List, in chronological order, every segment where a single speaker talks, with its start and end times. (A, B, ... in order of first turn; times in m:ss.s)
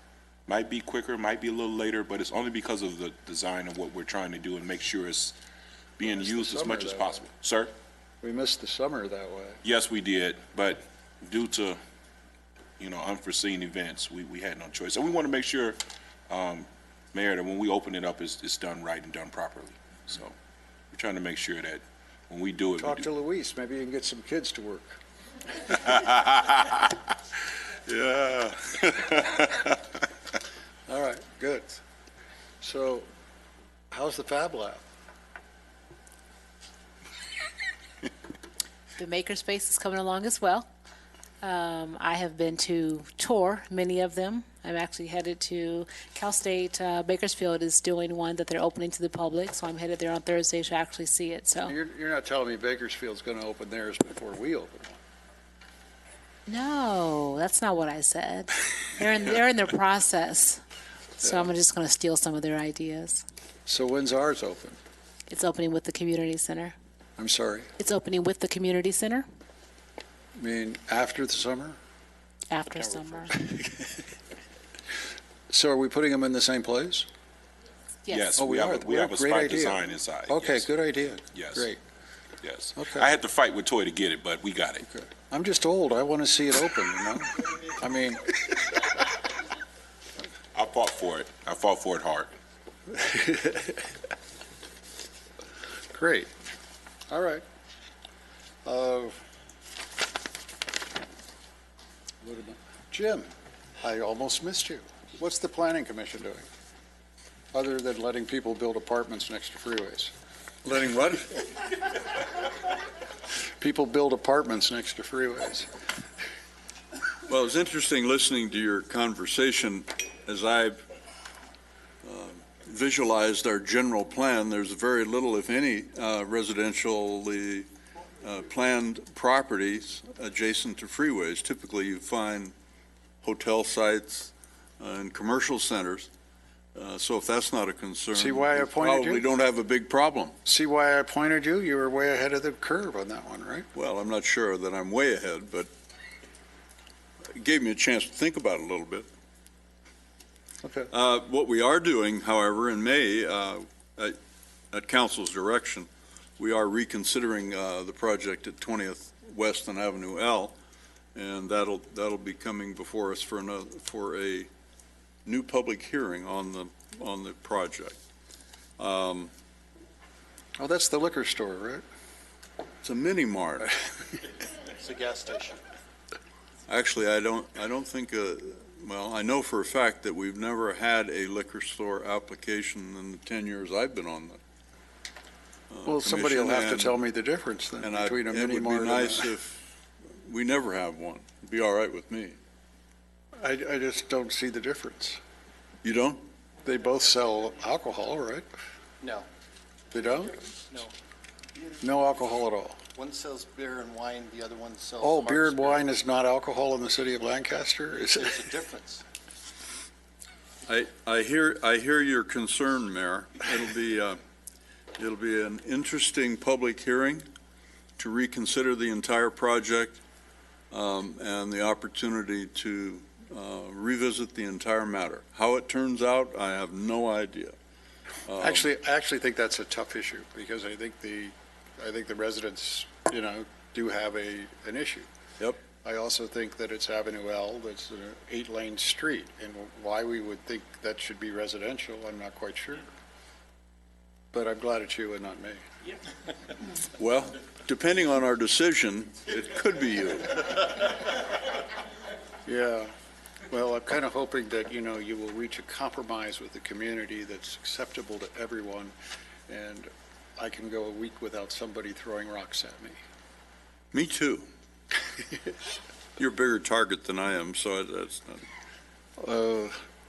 0:00.5-0:05.3 A
0:06.0-0:07.7 A
0:06.0-0:07.2 B
0:08.2-0:09.6 B
0:09.6-0:11.8 A
0:12.8-0:20.4 A
0:20.9-0:23.1 A
0:22.8-0:25.0 B
0:25.7-0:26.8 A
0:27.9-0:29.7 A
0:30.9-0:31.8 B
0:32.6-0:33.1 B
0:33.9-0:34.8 B
0:39.0-0:40.7 C
0:41.4-0:51.7 C
0:51.6-0:55.0 B
0:56.5-1:00.6 C
1:01.2-1:03.2 C
1:03.6-1:04.8 B
1:05.3-1:06.7 C
1:07.2-1:07.7 B
1:07.8-1:09.2 C
1:10.4-1:11.8 B
1:12.5-1:13.3 C
1:12.7-1:13.3 A
1:13.4-1:13.9 B
1:15.5-1:17.1 B
1:18.0-1:18.3 C
1:18.1-1:20.7 A
1:18.4-1:21.8 B
1:21.3-1:21.7 A
1:22.4-1:24.9 A
1:22.8-1:23.1 B
1:24.9-1:28.6 B
1:30.5-1:32.3 A
1:32.9-1:33.9 B
1:35.9-1:36.3 B
1:37.1-1:37.4 B
1:38.6-1:39.2 B
1:42.2-1:43.3 B
1:43.8-1:46.4 B
1:47.5-1:50.1 B
1:50.6-1:51.7 B
1:53.6-1:55.7 B
1:57.3-2:00.8 D
2:02.0-2:07.7 D
2:08.2-2:12.5 D
2:13.2-2:16.1 D
2:16.7-2:20.4 D
2:18.1-2:19.2 B
2:20.4-2:23.7 B
2:23.7-2:25.7 D
2:27.4-2:29.1 D
2:30.6-2:30.9 B
2:30.9-2:34.1 D
2:34.7-2:40.6 D
2:41.1-2:44.5 D
2:45.2-2:48.0 D
2:48.8-2:49.3 D
2:50.6-2:51.8 B
2:52.8-2:53.8 D
2:54.8-2:55.6 E
2:56.7-3:04.4 D
3:05.7-3:07.0 D
3:05.8-3:09.3 B
3:07.8-3:09.6 D
3:10.2-3:12.4 D
3:13.4-3:15.2 B
3:15.8-3:16.2 D
3:16.6-3:18.5 B
3:19.0-3:19.3 E
3:19.9-3:20.4 B
3:21.8-3:22.8 B
3:22.9-3:25.9 E
3:25.0-3:28.4 B
3:28.1-3:29.0 E
3:30.7-3:34.2 D
3:35.0-3:37.2 D
3:38.0-3:40.0 D
3:40.7-3:47.5 D
3:48.2-3:48.7 D
3:48.4-3:55.1 B
3:55.8-4:02.8 B
4:04.3-4:05.6 B
4:07.0-4:10.7 D
4:12.4-4:12.9 B
4:13.5-4:19.0 B
4:19.5-4:23.0 B
4:23.9-4:24.5 D
4:26.2-4:28.4 D
4:29.2-4:29.8 B